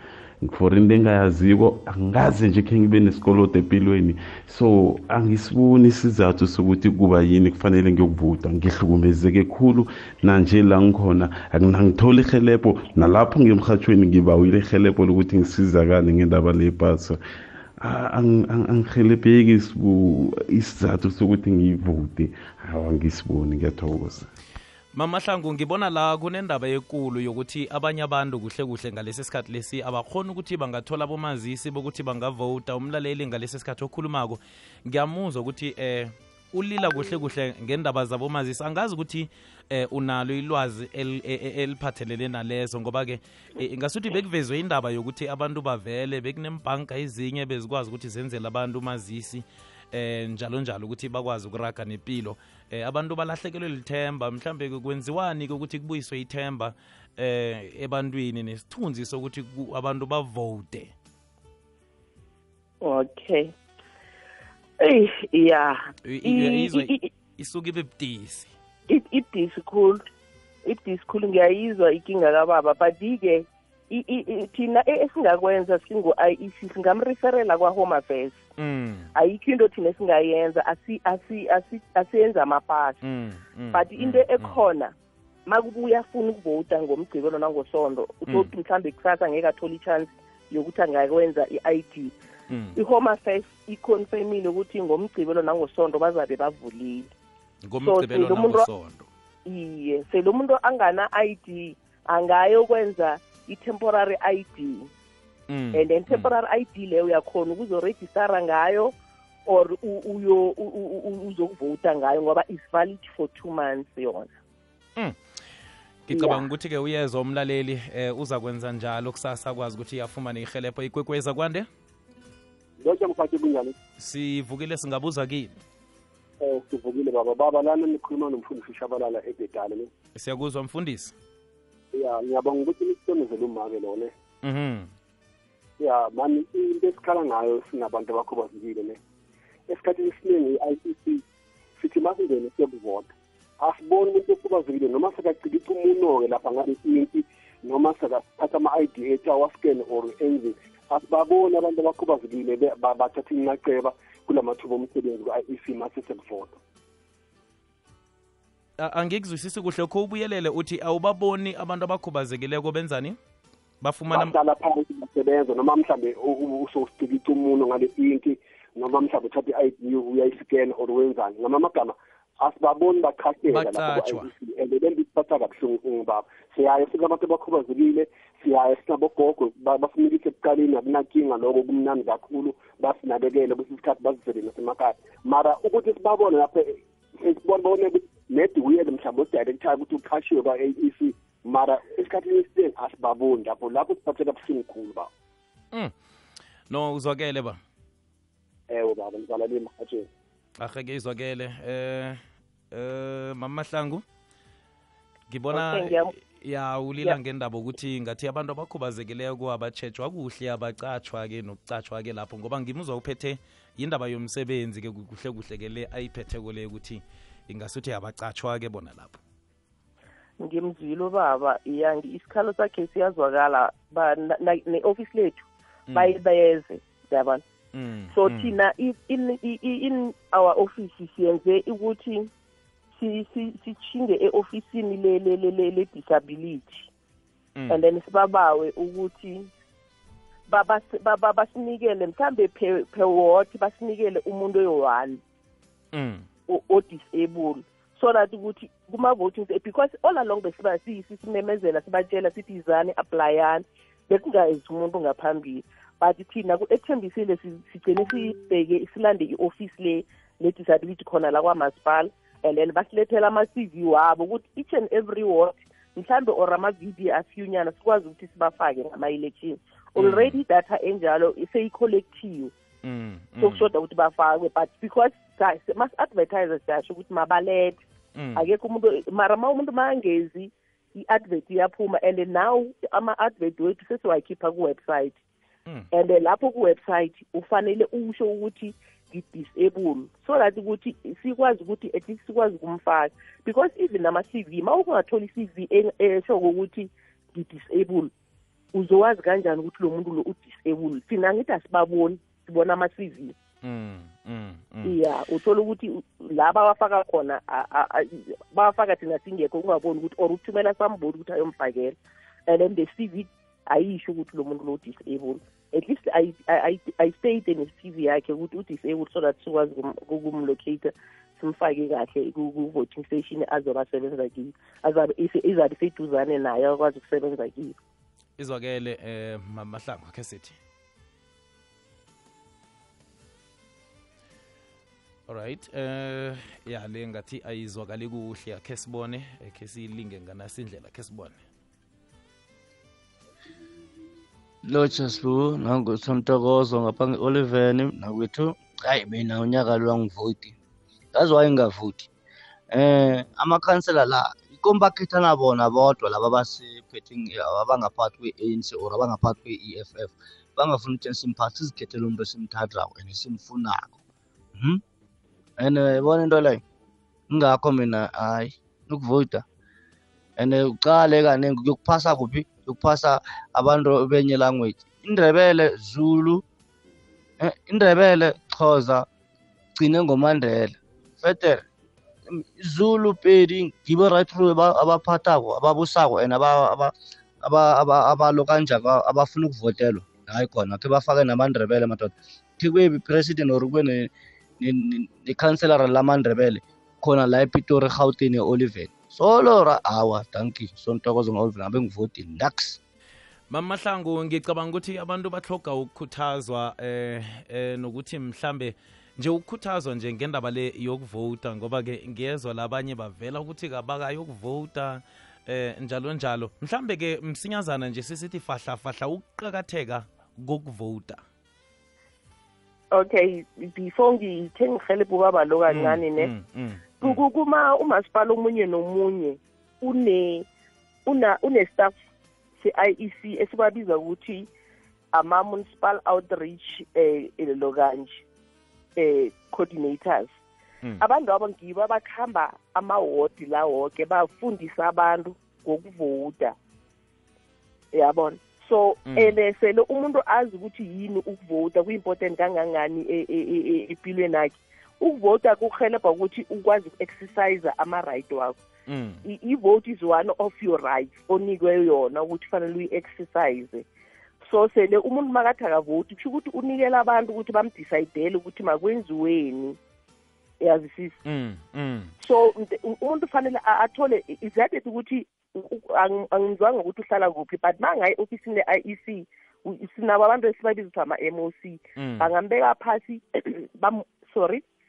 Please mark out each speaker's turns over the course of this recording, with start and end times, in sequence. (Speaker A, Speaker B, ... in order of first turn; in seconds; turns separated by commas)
Speaker A: 0.4-17.2, Speaker A: 17.8-24.3, Speaker B: 24.9-60.9, Speaker C: 62.8-63.5, Speaker C: 64.8-67.1, Speaker B: 66.0-68.5, Speaker C: 68.9-70.0, Speaker C: 70.7-78.4, Speaker B: 78.6-79.1, Speaker C: 79.2-83.0, Speaker B: 83.0-84.6, Speaker C: 83.7-84.9, Speaker C: 85.5-92.1, Speaker B: 92.5-92.8, Speaker C: 92.8-97.1, Speaker B: 97.7-99.1, Speaker C: 97.8-98.7, Speaker C: 99.5-104.9, Speaker B: 105.5-106.3, Speaker C: 105.7-108.9, Speaker C: 109.5-114.3, Speaker B: 116.1-121.7, Speaker C: 116.1-116.5, Speaker D: 122.8-123.7, Speaker B: 124.0-125.5, Speaker D: 126.4-129.9, Speaker B: 130.2-131.1, Speaker D: 131.9-134.1, Speaker B: 134.4-134.9, Speaker D: 135.8-139.0, Speaker D: 139.7-141.2, Speaker D: 141.8-156.6, Speaker B: 158.8-163.2, Speaker B: 163.8-164.4, Speaker D: 164.1-195.1, Speaker B: 173.5-174.3, Speaker B: 196.7-197.6, Speaker D: 198.7-200.1, Speaker B: 200.6-204.0, Speaker B: 205.3-219.2, Speaker C: 205.5-206.1, Speaker C: 220.4-225.4, Speaker B: 225.9-226.2, Speaker C: 225.9-227.4, Speaker B: 227.7-228.6, Speaker C: 228.1-232.3, Speaker C: 233.0-236.9, Speaker B: 237.6-237.8, Speaker C: 237.7-239.5, Speaker C: 240.5-245.2, Speaker B: 245.9-246.2, Speaker C: 246.5-272.5, Speaker B: 270.0-270.4, Speaker B: 272.8-273.7, Speaker C: 273.4-277.8, Speaker B: 278.1-278.4, Speaker C: 278.4-285.2, Speaker C: 285.9-298.1, Speaker C: 298.7-303.3, Speaker B: 303.6-305.0, Speaker C: 304.8-311.9, Speaker C: 312.5-327.8, Speaker B: 328.4-330.6, Speaker B: 335.3-341.4, Speaker E: 344.7-350.6, Speaker E: 351.1-352.1, Speaker E: 352.7-364.0, Speaker E: 364.6-364.8, Speaker E: 365.6-366.6, Speaker E: 367.3-369.4, Speaker E: 370.4-376.4, Speaker E: 377.4-379.1, Speaker E: 379.8-381.6, Speaker E: 382.3-402.8, Speaker B: 403.5-421.2, Speaker C: 422.9-426.3, Speaker B: 425.7-427.2, Speaker C: 427.0-430.5, Speaker C: 431.1-431.9, Speaker C: 432.6-434.5, Speaker C: 435.1-438.2, Speaker C: 439.0-440.3, Speaker C: 441.0-446.6, Speaker C: 447.9-458.6, Speaker B: 449.1-449.4, Speaker B: 458.9-459.2, Speaker C: 459.2-463.9, Speaker C: 464.4-469.8, Speaker C: 470.6-471.2, Speaker B: 471.2-472.1, Speaker C: 472.2-484.6, Speaker B: 482.0-482.3